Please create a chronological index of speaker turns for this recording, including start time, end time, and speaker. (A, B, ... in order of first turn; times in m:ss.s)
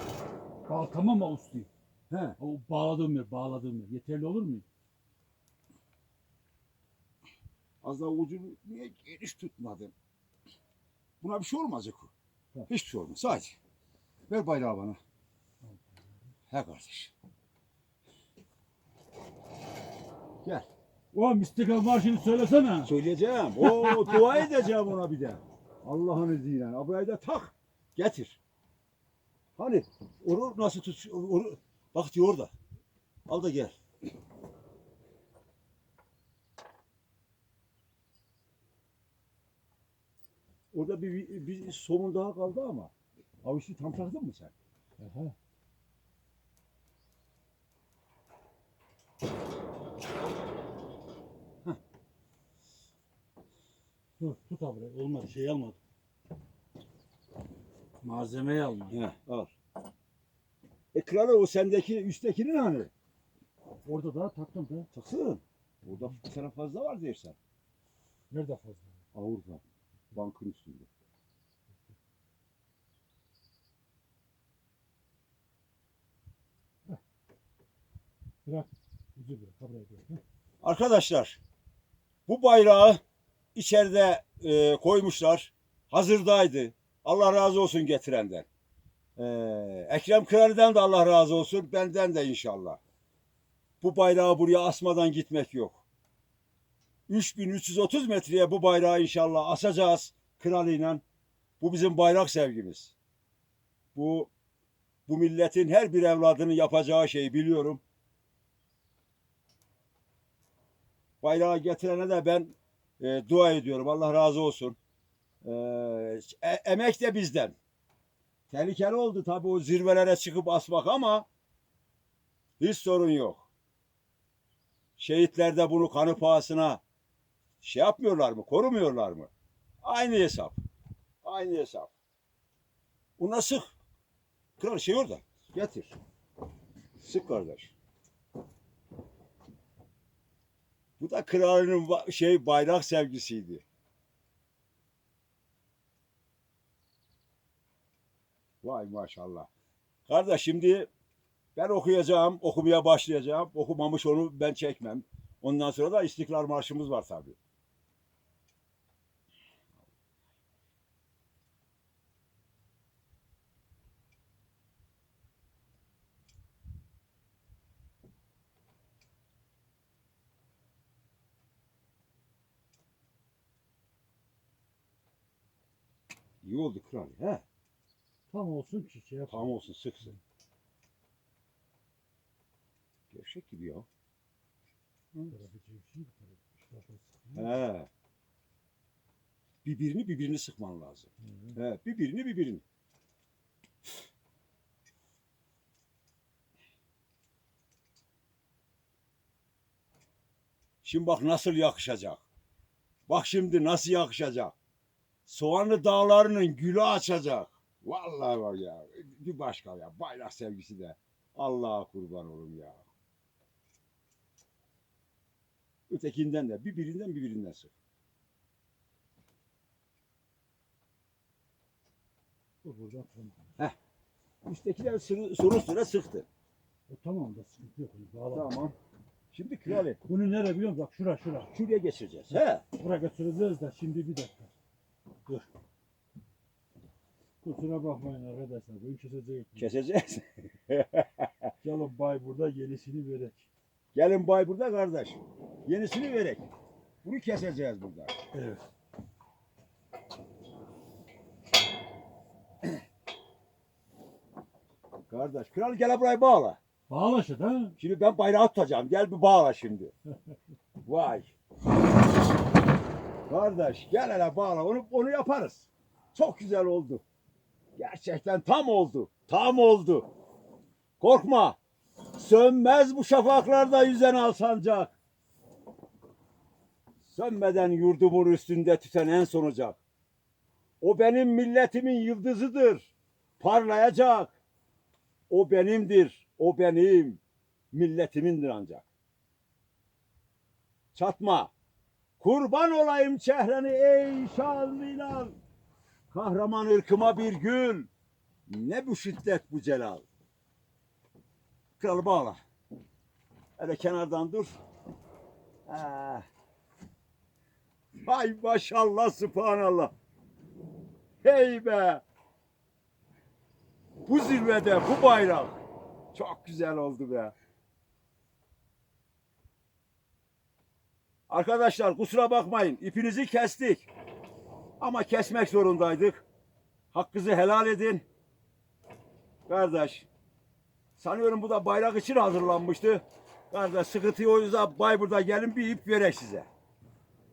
0:00.7-0:01.7 A
0:02.1-0:02.4 B
0:02.4-0:04.6 A
0:07.8-0:09.9 B
0:11.2-0:12.1 B
0:12.7-0:13.6 B
0:14.3-0:15.0 B
0:16.5-0:17.1 B
0:21.1-0:22.9 A
0:22.8-0:28.4 B
0:23.6-0:24.5 A
0:29.6-0:32.5 B
0:33.3-0:33.8 B
0:40.7-0:42.9 B
0:43.4-0:44.5 B
0:45.0-0:45.3 A
0:54.2-0:55.8 A
0:58.0-0:59.0 A
0:58.9-0:59.5 B
1:00.9-1:02.9 B
1:03.8-1:04.9 A
1:04.9-1:07.4 B
1:08.3-1:08.9 A
1:09.1-1:09.6 B
1:10.1-1:10.9 B
1:18.4-1:20.2 A
1:20.6-1:21.4 B
1:22.3-1:23.0 B
1:23.6-1:28.5 B
1:29.2-1:32.8 B
1:33.8-1:35.8 B
1:37.1-1:41.0 B
1:41.6-1:43.0 B
1:44.0-1:44.3 B
1:45.1-1:47.8 B
1:51.2-1:54.8 B
1:55.4-1:57.6 B
1:58.5-2:01.3 B
2:02.6-2:03.5 B
2:05.0-2:06.8 B
2:07.6-2:09.3 B
2:09.8-2:10.6 B
2:11.2-2:11.9 B
2:13.2-2:13.7 B
2:14.6-2:16.0 B
2:17.0-2:17.7 B
2:21.0-2:23.6 B
2:28.6-2:29.5 B
2:30.1-2:30.9 B
2:31.6-2:37.4 B
2:56.4-2:57.4 B
2:58.3-2:59.5 A
2:59.3-3:00.2 B
3:03.1-3:03.9 B
3:05.3-3:07.6 A
3:07.4-3:07.9 B
3:09.6-3:12.6 B
3:11.3-3:11.6 A
3:20.8-3:22.2 B
3:23.1-3:24.6 B
3:25.3-3:32.8 B
3:35.9-3:37.7 B
3:42.6-3:43.5 A
3:44.4-3:46.3 B
3:46.9-3:48.5 A
3:48.3-3:48.8 B
3:49.3-3:50.0 B
3:49.7-3:51.5 A
3:51.5-3:52.6 B
3:52.8-3:54.5 A
3:57.4-3:59.7 A
3:59.6-4:01.5 B
4:01.6-4:03.5 A
4:03.9-4:06.5 B
4:07.0-4:08.2 B
4:08.3-4:08.6 A
4:15.1-4:16.6 B
4:16.9-4:17.8 A
4:17.8-4:19.9 B
4:20.9-4:21.3 B
4:23.3-4:27.0 B
4:27.8-4:30.1 B
4:31.0-4:31.6 B
4:32.2-4:35.0 B
4:37.0-4:39.8 B
4:40.8-4:44.4 B
4:45.3-4:47.2 B
4:47.7-4:48.8 B
4:51.0-4:51.5 B
4:52.2-4:55.4 B
4:56.1-4:57.9 B
4:58.5-5:00.1 B
5:01.8-5:02.4 B
5:03.6-5:04.6 B
5:05.7-5:06.2 B
5:08.0-5:09.9 B
5:11.2-5:12.0 B
5:14.1-5:15.6 B
5:16.1-5:17.3 B
5:21.3-5:23.9 B
5:24.8-5:26.2 B
5:26.9-5:28.0 B
5:29.5-5:30.1 B
5:31.0-5:36.5 B